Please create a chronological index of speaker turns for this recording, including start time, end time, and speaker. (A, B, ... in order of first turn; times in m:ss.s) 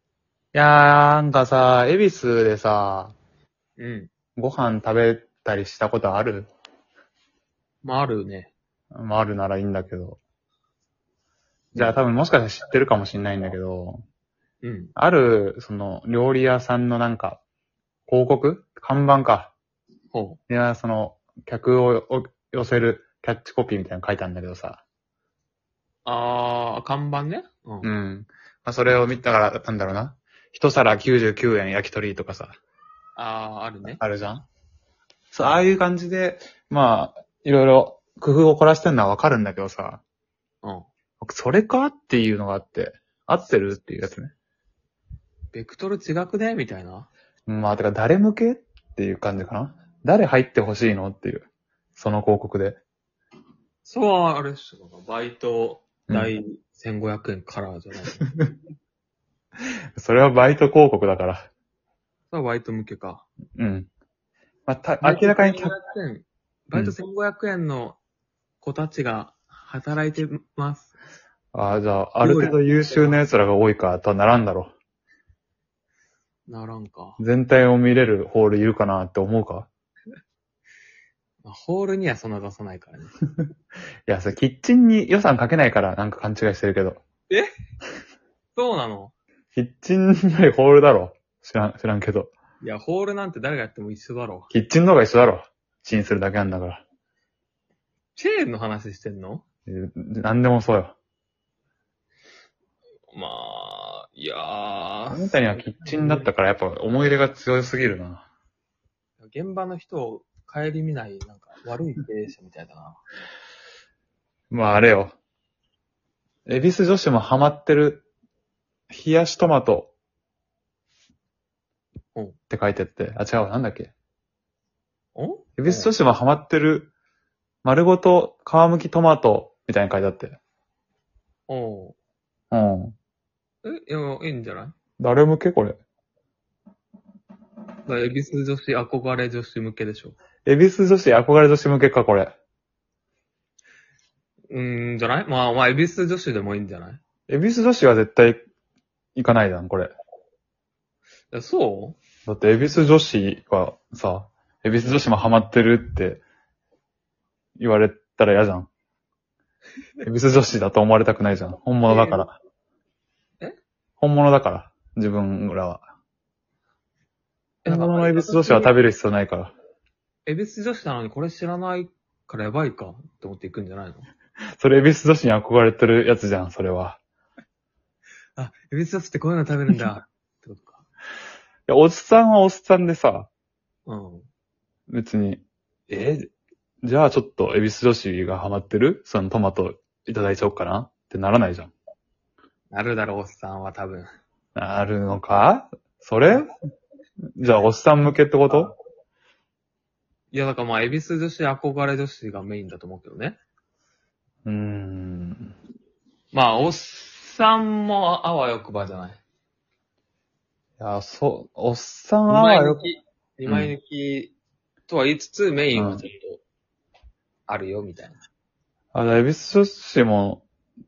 0:00.5-0:03.2 A
0:03.8-0:04.1 B
0:04.4-0:06.5 A
0:07.8-0:08.5 B
0:08.9-0:10.2 A
0:11.7-0:12.0 B
0:11.8-0:14.0 A
0:14.6-0:14.9 B
0:15.0-0:17.4 A
0:18.1-0:19.5 A
0:20.1-0:20.4 B
0:20.5-0:24.8 A
0:26.0-0:27.9 B
0:27.8-0:32.6 A
0:33.2-0:34.0 B
0:34.0-0:34.5 A
0:35.3-0:40.0 A
0:41.2-0:44.3 A
0:45.5-0:47.1 B
0:47.5-0:52.8 A
0:53.8-0:58.2 B
1:00.0-1:01.5 A
1:02.3-1:03.3 B
1:03.6-1:03.9 A
1:04.7-1:05.8 A
1:05.0-1:08.0 B
1:08.6-1:10.9 B
1:11.5-1:14.7 A
1:12.2-1:13.2 B
1:16.5-1:17.2 B
1:17.2-1:19.7 A
1:21.4-1:23.2 B
1:24.1-1:27.0 A
1:28.6-1:29.1 B
1:29.6-1:32.3 A
1:32.6-1:34.5 B
1:34.5-1:36.8 A
1:38.2-1:39.4 B
1:39.7-1:41.0 A
1:43.1-1:46.3 B
1:45.1-1:48.2 A
1:49.2-1:53.0 B
1:54.5-1:55.2 A
1:56.5-1:58.1 A
1:58.9-1:59.9 A
2:02.5-2:03.9 A
2:05.2-2:05.9 B
2:05.6-2:06.9 A
2:07.6-2:10.4 A
2:11.5-2:12.0 B
2:12.5-2:13.0 A
2:13.6-2:14.8 B
2:15.0-2:15.8 A
2:17.9-2:20.2 B
2:20.4-2:22.4 A
2:24.5-2:27.0 B
2:27.3-2:28.4 A
2:29.2-2:29.9 A
2:31.3-2:32.0 B
2:32.3-2:36.2 A
2:37.6-2:38.7 A
2:40.0-2:42.4 A
2:41.9-2:42.3 B
2:44.0-2:45.8 A
2:47.6-2:49.5 A
2:47.7-2:48.8 B
2:50.3-2:54.1 B
2:54.6-2:57.0 A
2:58.4-3:00.8 B
3:01.7-3:03.3 A
3:03.9-3:04.3 B
3:04.9-3:06.3 A
3:06.8-3:11.7 A
3:12.7-3:14.1 B
3:14.6-3:16.4 A
3:17.4-3:18.7 A
3:18.5-3:18.8 B
3:20.3-3:23.4 B
3:24.4-3:25.5 A
3:26.3-3:29.2 B
3:30.8-3:32.8 A
3:32.3-3:34.4 B
3:33.5-3:33.7 A
3:34.9-3:36.4 B
3:35.8-3:36.0 A
3:37.5-3:38.2 B
3:38.9-3:40.4 A